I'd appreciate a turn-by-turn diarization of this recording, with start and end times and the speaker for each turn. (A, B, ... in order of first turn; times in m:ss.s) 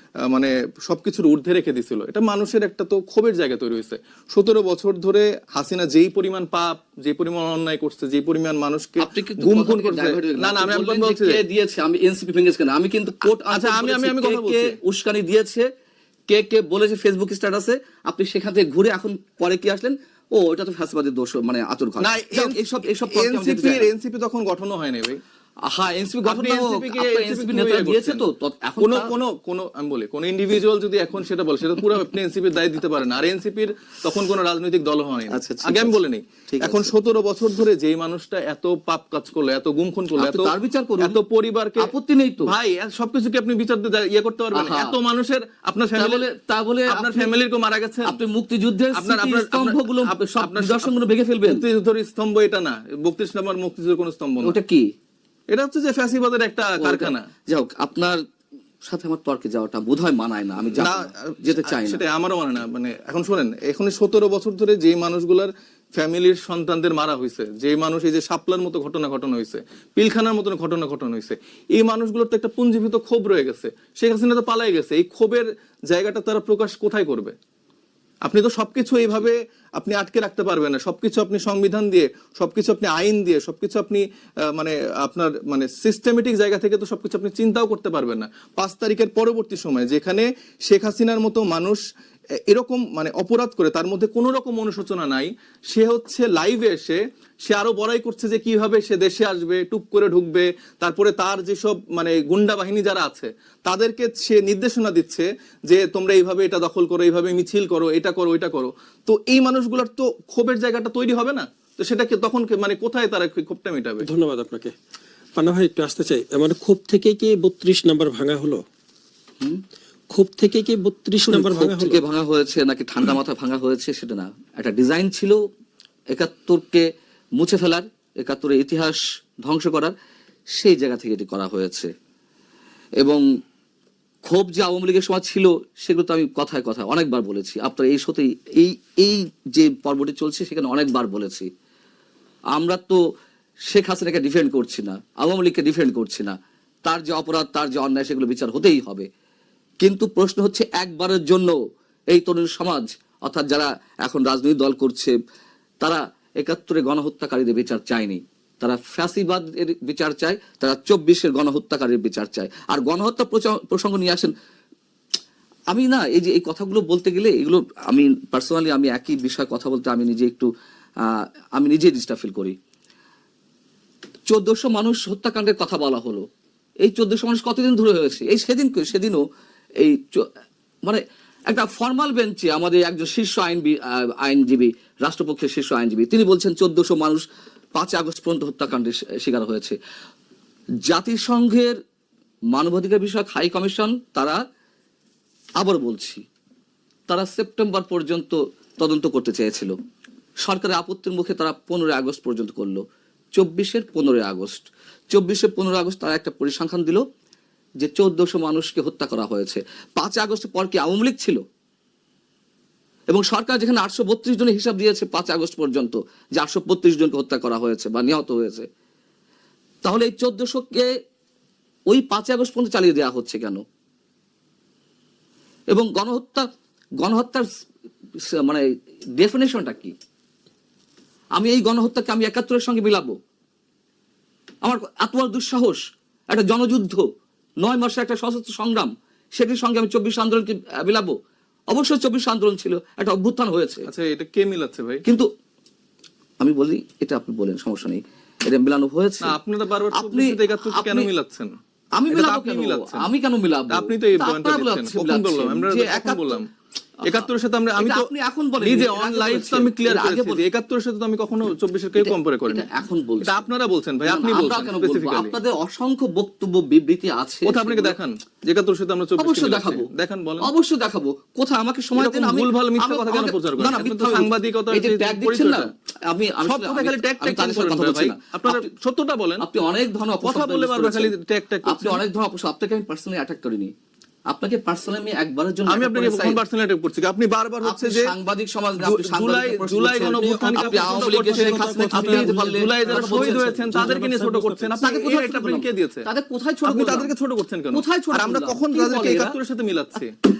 0:00.3-0:11.4 A
0:09.0-0:15.6 B
0:13.3-0:14.8 A
0:16.3-0:23.9 B
0:22.0-0:25.2 A
0:25.7-0:29.1 B
0:26.2-0:28.2 A
0:28.8-0:41.9 A
0:35.3-0:36.0 B
0:36.5-0:36.9 B
0:40.2-0:41.2 B
0:41.8-0:42.5 B
0:42.4-0:46.3 A
0:44.5-0:44.9 B
0:46.0-0:47.3 B
0:46.9-0:48.2 A
0:48.0-0:51.6 B
0:48.9-0:54.6 A
0:54.4-0:54.8 B
0:55.5-0:57.3 A
0:56.8-0:58.2 B
0:58.8-1:02.0 B
1:00.8-1:17.3 A
1:18.2-1:31.8 A
1:32.5-1:54.1 A
1:54.0-1:54.7 C
1:55.4-1:58.6 C
2:00.1-2:02.0 C
2:01.2-2:05.4 B
2:06.1-2:06.8 B
2:07.4-2:09.9 B
2:10.5-2:11.9 B
2:14.2-2:21.5 B
2:22.5-2:23.0 B
2:23.7-2:29.1 B
2:29.8-2:31.6 B
2:32.1-2:35.1 B
2:35.8-2:44.3 B
2:45.7-2:50.5 B
2:51.0-2:52.5 B
2:54.3-2:56.2 B
2:56.8-2:59.2 B
2:59.8-3:00.2 B
3:00.8-3:07.2 B
3:07.8-3:09.8 B
3:10.9-3:11.7 B
3:12.5-3:14.4 B
3:15.6-3:16.2 B
3:17.1-3:19.7 B
3:20.4-3:22.8 B
3:23.4-3:27.0 B
3:27.8-3:31.4 B
3:33.1-3:38.7 B
3:39.8-3:40.9 B
3:41.9-3:43.6 B
3:45.7-3:46.5 B
3:47.0-3:47.5 B
3:48.4-3:48.7 B
3:49.2-3:49.9 B
3:51.4-3:53.1 B
3:54.6-3:57.0 B
3:57.6-4:01.2 B
4:01.7-4:03.9 B
4:03.9-4:05.0 A
4:06.4-4:09.3 B
4:09.3-4:11.6 A
4:10.0-4:11.1 B
4:12.0-4:16.4 B
4:12.1-4:13.1 A
4:13.7-4:16.5 A
4:17.1-4:18.0 A
4:17.8-4:20.4 B
4:18.6-4:22.7 A
4:22.0-4:23.4 B
4:23.2-4:25.4 A
4:24.0-4:28.0 B
4:27.4-4:30.5 A
4:29.2-4:29.8 B
4:30.4-4:38.7 B
4:32.0-4:35.7 A
4:36.4-4:39.4 A
4:39.4-4:41.1 B
4:40.2-4:42.0 A
4:41.7-4:43.7 B
4:44.3-4:46.4 B
4:45.7-4:48.1 A
4:47.6-4:54.0 B
4:48.8-4:56.1 A
4:50.0-4:54.7 C
4:54.8-4:57.1 B
4:56.7-5:00.1 A
4:57.7-4:59.4 B